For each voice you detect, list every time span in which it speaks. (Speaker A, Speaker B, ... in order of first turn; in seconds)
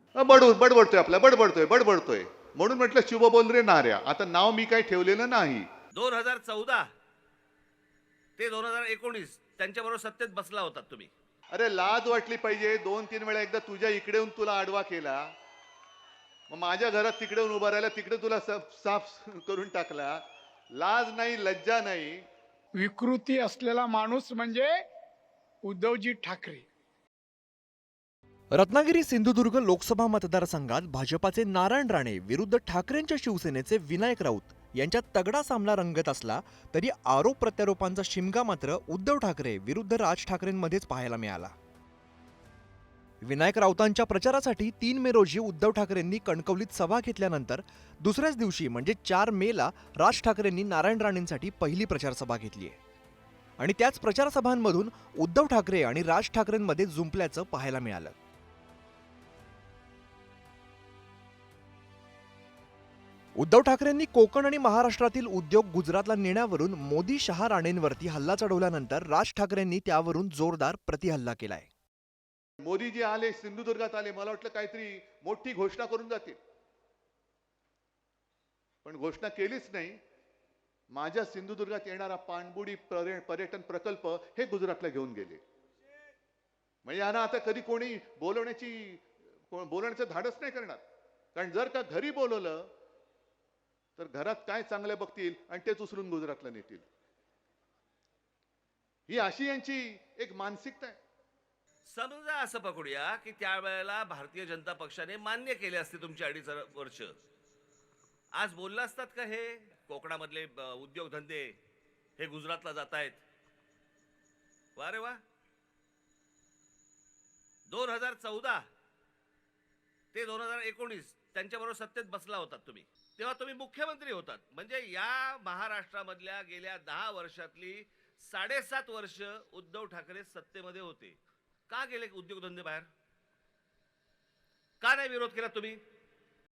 Speaker A: 0.1-5.7, 11.5-15.3, 16.5-20.2, 20.7-22.2, 72.6-76.4, 78.8-80.0, 80.9-85.4, 86.8-90.8, 91.3-92.6, 94.0-96.8, 99.1-101.0
Speaker B: 5.9-6.8, 8.4-11.1, 101.9-107.1, 108.3-111.6, 112.2-113.2, 114.8-115.2, 117.7-118.6, 120.1-131.2, 131.7-132.9, 134.8-135.8
Speaker C: 22.8-24.7, 25.6-26.6
Speaker D: 28.5-41.5, 43.2-52.8, 53.6-58.1, 63.4-71.7